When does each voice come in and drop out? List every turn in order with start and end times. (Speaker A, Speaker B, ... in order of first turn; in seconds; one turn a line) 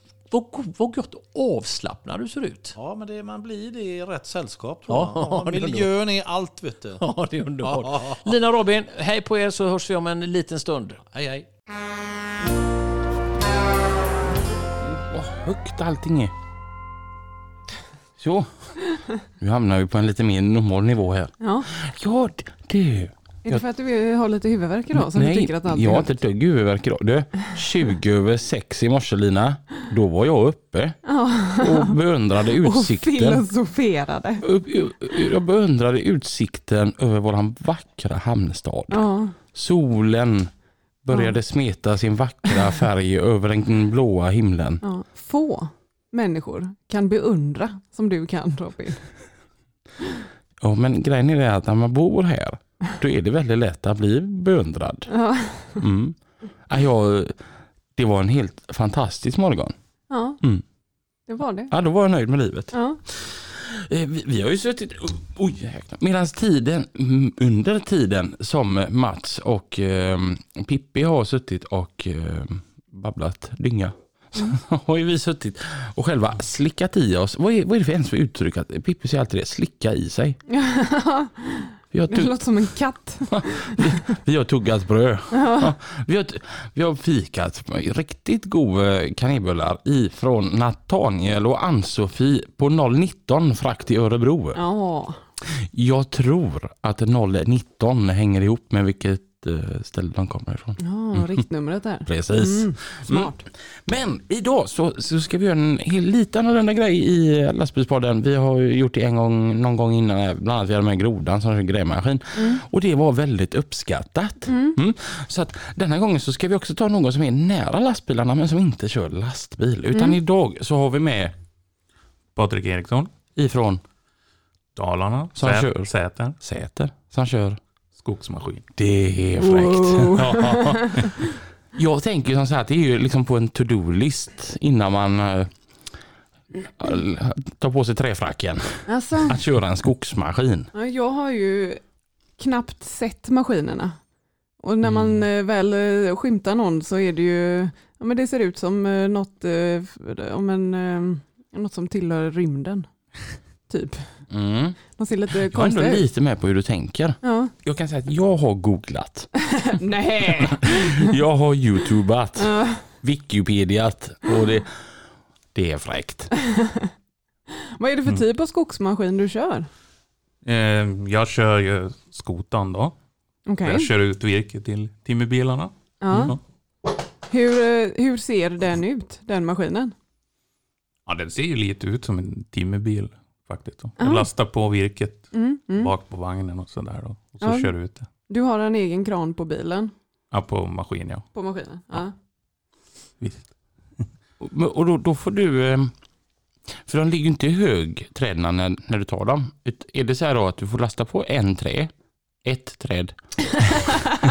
Speaker A: 0.3-2.8
Speaker B: 2.8-7.0
Speaker A: 4.9-5.9
Speaker A: 7.0-11.0
Speaker B: 7.6-8.3
Speaker B: 11.1-11.5
Speaker C: 14.8-16.3
Speaker C: 18.2-23.6
Speaker D: 21.4-21.7
Speaker D: 23.4-26.1
Speaker C: 24.9-31.0
Speaker D: 31.1-32.0
Speaker C: 31.5-33.4
Speaker D: 32.6-34.5
Speaker C: 34.4-44.8
Speaker D: 38.9-39.4
Speaker D: 44.8-49.3
Speaker C: 50.6-59.7
Speaker D: 55.1-55.8
Speaker D: 60.1-60.4
Speaker C: 60.4-60.6
Speaker D: 61.3-61.7
Speaker C: 61.7-80.4
Speaker D: 62.7-63.0
Speaker D: 80.5-83.8
Speaker C: 81.9-82.7
Speaker C: 83.3-94.6
Speaker D: 85.3-85.7
Speaker D: 94.5-95.2
Speaker C: 95.5-101.3
Speaker D: 100.8-103.4
Speaker C: 102.0-121.3
Speaker D: 112.3-112.6
Speaker D: 114.5-114.8
Speaker D: 119.9-120.2
Speaker E: 122.3-123.1
Speaker C: 123.3-123.8
Speaker E: 124.7-126.4
Speaker C: 125.4-127.6
Speaker E: 128.0-128.7
Speaker C: 128.7-130.2
Speaker D: 129.4-131.1
Speaker E: 130.1-131.2
Speaker C: 131.7-135.9
Speaker C: 136.5-140.7
Speaker D: 138.9-139.4
Speaker D: 140.7-141.8
Speaker D: 142.3-144.1
Speaker D: 144.6-153.1
Speaker D: 153.7-154.3
Speaker C: 154.3-154.9
Speaker D: 155.0-156.0
Speaker C: 155.5-159.5
Speaker D: 157.2-157.5
Speaker D: 159.7-161.0
Speaker C: 160.4-166.3
Speaker D: 162.4-162.8
Speaker D: 166.5-166.8
Speaker D: 167.8-169.7
Speaker E: 170.4-172.9
Speaker D: 173.5-173.9
Speaker E: 173.6-176.4
Speaker D: 176.0-176.3
Speaker D: 177.3-179.9
Speaker E: 181.1-188.1
Speaker D: 184.0-184.3
Speaker D: 185.3-185.9
Speaker D: 187.4-189.9
Speaker E: 190.3-191.3
Speaker D: 191.3-192.1
Speaker E: 193.2-194.0
Speaker C: 194.4-195.9
Speaker C: 196.8-201.9
Speaker C: 202.4-203.1